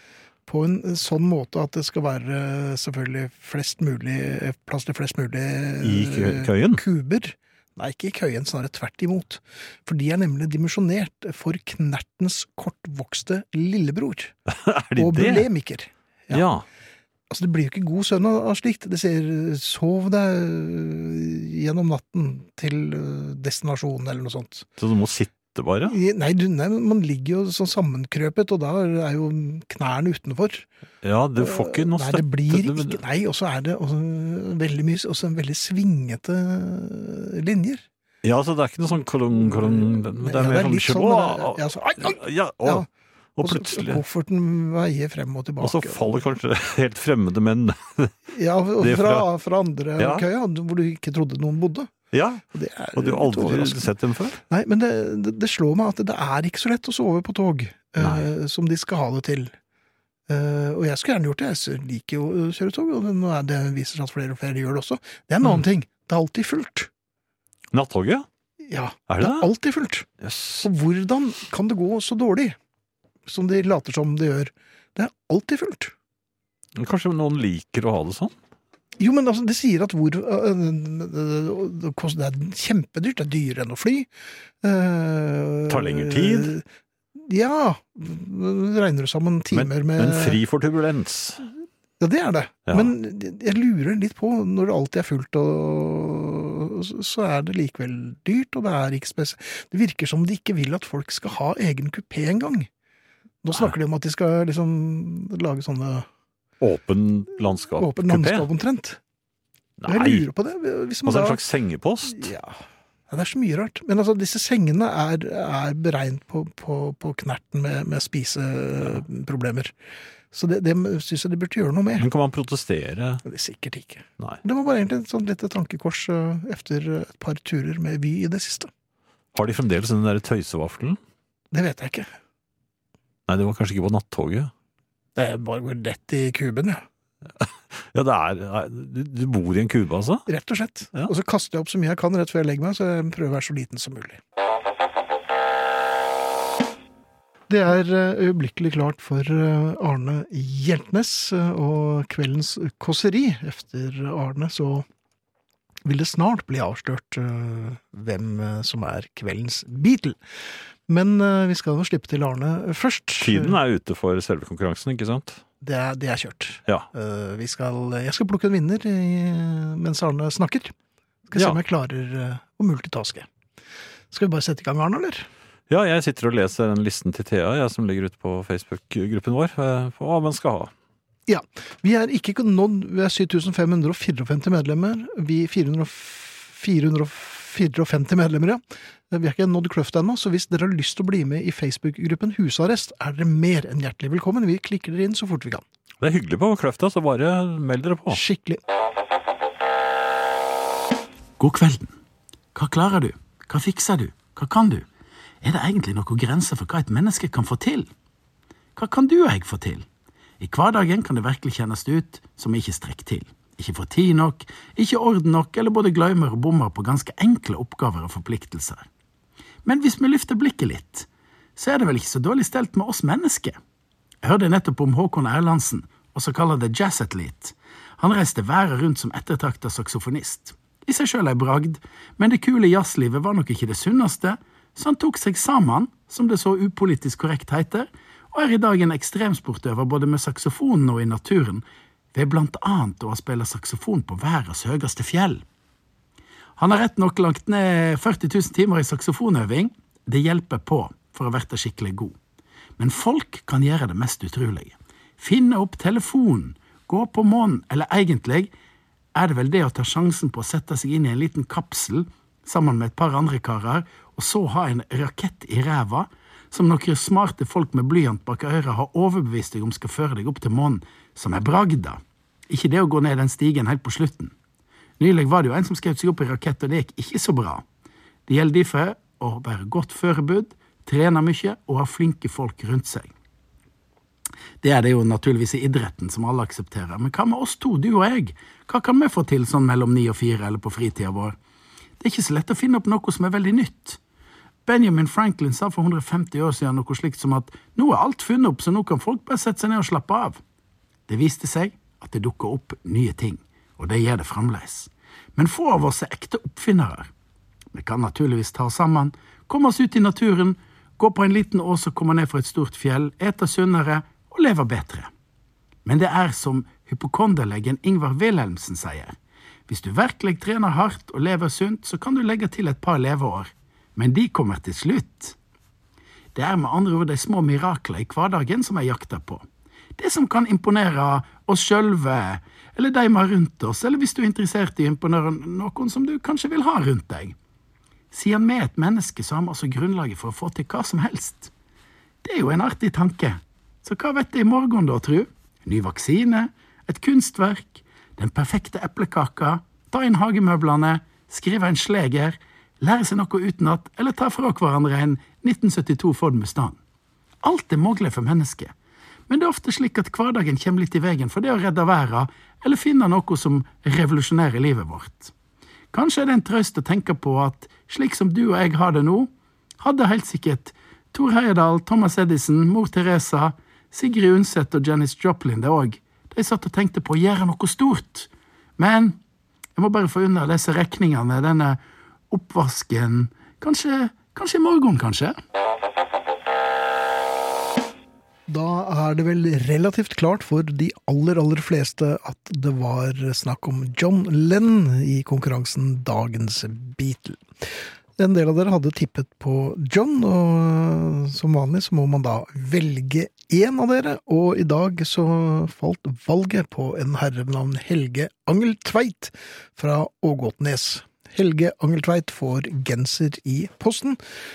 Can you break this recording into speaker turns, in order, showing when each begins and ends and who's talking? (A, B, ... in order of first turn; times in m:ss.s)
0:00.4-0:14.3 A
0:05.8-0:06.8 B
0:14.5-0:15.5 B
0:15.0-0:16.4 A
0:16.3-0:16.6 B
0:17.3-0:24.7 A
0:24.8-0:26.0 B
0:25.8-0:30.6 A
0:31.0-0:33.0 B
0:31.4-0:37.8 A
0:38.2-0:42.8 B
0:39.3-0:42.9 A
0:43.4-0:44.0 B
0:43.4-0:46.2 A
0:45.6-0:48.1 B
0:48.3-0:51.9 A
0:48.8-0:49.3 B
0:50.0-0:50.2 B
0:52.1-0:52.4 B
0:52.5-0:53.9 A
0:52.9-0:54.4 B
0:54.5-0:59.5 A
0:58.0-0:58.3 B
1:00.3-1:06.9 A
1:07.7-1:08.2 B
1:08.6-1:10.1 A
1:09.1-1:09.5 B
1:10.2-1:10.7 B
1:10.6-1:12.6 A
1:13.2-1:15.9 A
1:16.8-1:18.3 B
1:19.0-1:24.1 A
1:24.6-1:26.6 A
1:25.7-1:26.5 B
1:27.1-1:30.4 A
1:29.5-1:31.5 B
1:32.0-1:42.7 A
1:32.7-1:32.9 B
1:43.4-1:46.1 A
1:46.6-1:48.5 B
1:47.7-1:49.0 A
1:49.8-1:50.3 B
1:49.9-1:51.4 A
1:51.0-1:52.3 B
1:52.0-1:59.7 A
2:00.3-2:02.1 A
2:02.0-2:03.2 B
2:03.2-2:08.7 A
2:09.3-2:11.0 B
2:11.5-2:12.1 A
2:13.3-2:14.5 B
2:15.2-2:16.8 A
2:17.4-2:20.2 B
2:20.3-2:24.2 A
2:27.5-2:34.8 A
2:35.8-2:40.2 A
2:40.9-2:43.6 A
2:43.2-2:45.4 B
2:45.6-2:50.7 A
2:51.3-2:53.3 A
2:54.1-2:55.3 A
2:55.7-3:00.7 B
3:01.3-3:15.6 A
3:16.0-3:18.2 B
3:18.1-3:18.6 A
3:21.4-3:21.9 C
3:22.5-3:24.8 C
3:25.4-3:27.9 C
3:28.8-3:29.8 C
3:30.4-3:38.9 C
3:39.6-3:43.6 C
3:44.2-4:05.4 C
4:06.6-4:12.1 C
4:12.8-4:18.5 C
4:19.1-4:34.3 C
4:35.0-4:37.6 C
4:38.3-4:43.1 C
4:44.6-4:51.4 C
4:52.0-4:54.0 C
4:54.6-5:00.4 C
5:01.1-5:07.1 C
5:07.7-5:15.1 C
5:15.8-5:19.2 C
5:19.7-5:25.3 C
5:26.3-5:29.4 C
5:30.0-5:37.3 C
5:38.1-5:41.5 C
5:42.2-5:56.8 C
5:57.4-5:58.7 C
5:59.3-6:05.3 C
6:05.9-6:19.2 C
6:19.8-6:25.4 C
6:28.5-6:54.2 A